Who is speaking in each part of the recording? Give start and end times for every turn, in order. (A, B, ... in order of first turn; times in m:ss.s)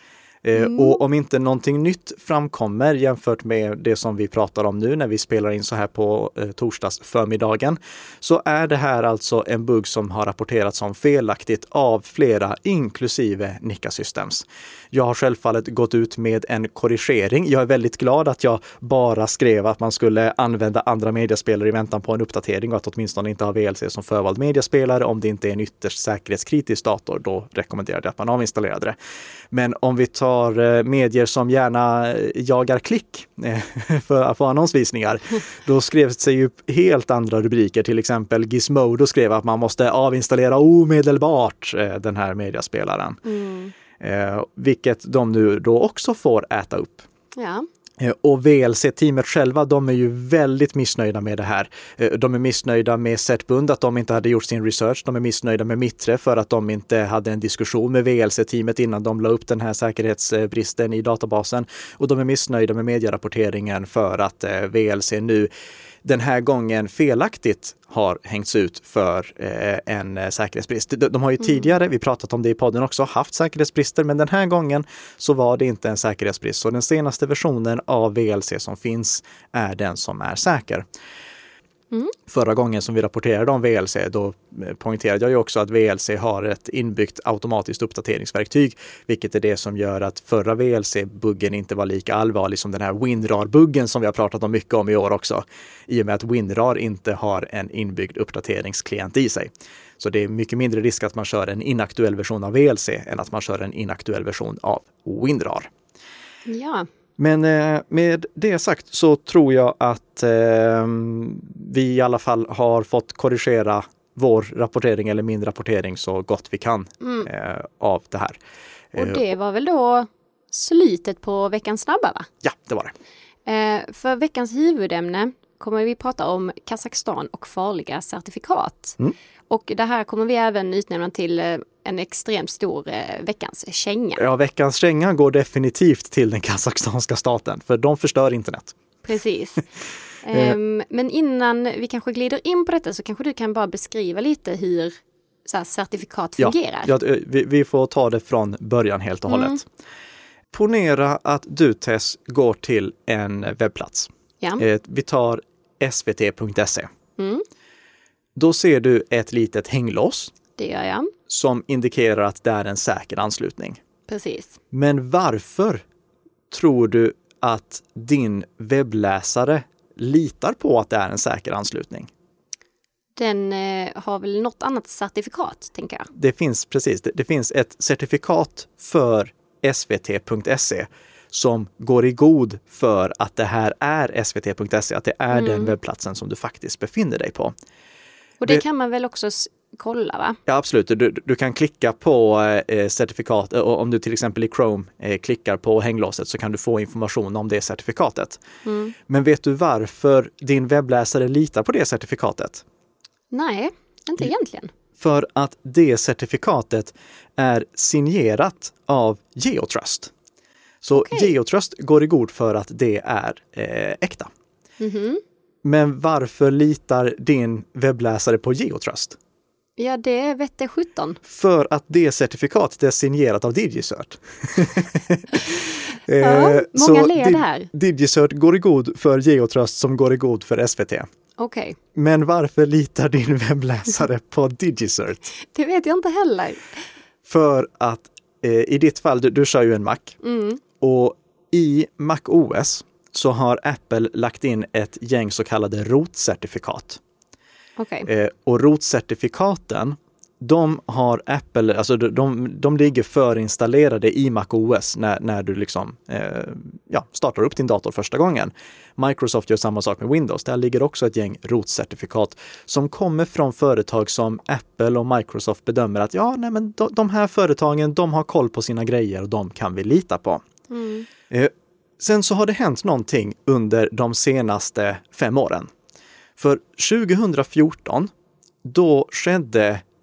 0:00.4-0:29.0 A
0:00.6-0:01.0 B
0:29.5-0:43.2 A
0:43.2-0:43.7 B
0:44.0-0:47.1 A
0:47.4-0:47.6 B
0:48.0-1:05.5 A
1:06.0-1:20.8 A
1:22.3-1:45.7 A
1:46.5-1:46.9 B
1:47.2-1:58.4 A
1:57.0-1:57.3 B
1:58.9-1:59.2 A
1:59.0-2:02.3 B
2:02.4-2:02.9 A
2:03.5-2:09.0 B
2:09.5-2:14.2 B
2:14.2-2:18.8 A
2:19.0-2:19.6 B
2:20.2-2:24.9 B
2:20.3-2:20.6 A
2:25.4-2:26.9 B
2:26.4-2:29.7 A
2:29.3-2:29.6 B
2:30.5-2:36.9 A
2:37.2-2:37.4 B
2:38.4-2:40.4 A
2:40.6-2:41.1 B
2:41.3-2:43.8 A
2:44.1-2:44.6 B
2:44.7-2:45.8 A
2:46.5-2:52.1 A
2:53.2-2:56.1 B
2:56.1-3:07.5 A
3:05.3-3:05.7 B
3:08.4-3:10.4 B
3:10.5-3:18.4 A
3:18.6-3:19.0 B
3:19.1-3:22.6 A
3:23.3-3:24.7 B
3:25.0-3:30.1 A
3:30.8-3:34.3 A
3:31.0-3:31.3 B
3:34.8-3:35.2 B
3:35.6-3:39.2 A
3:39.8-3:41.2 B
3:41.2-3:51.1 A
3:46.2-3:47.7 B
3:51.4-3:51.8 B
3:52.0-3:55.3 A
3:55.4-3:56.8 B
3:57.3-4:00.2 A
4:00.2-4:00.6 B
4:00.8-4:07.0 A
4:07.8-4:08.1 B
4:08.1-4:30.4 A
4:30.7-4:31.1 B
4:31.3-4:35.7 A
4:36.4-4:38.1 A
4:38.6-4:39.8 A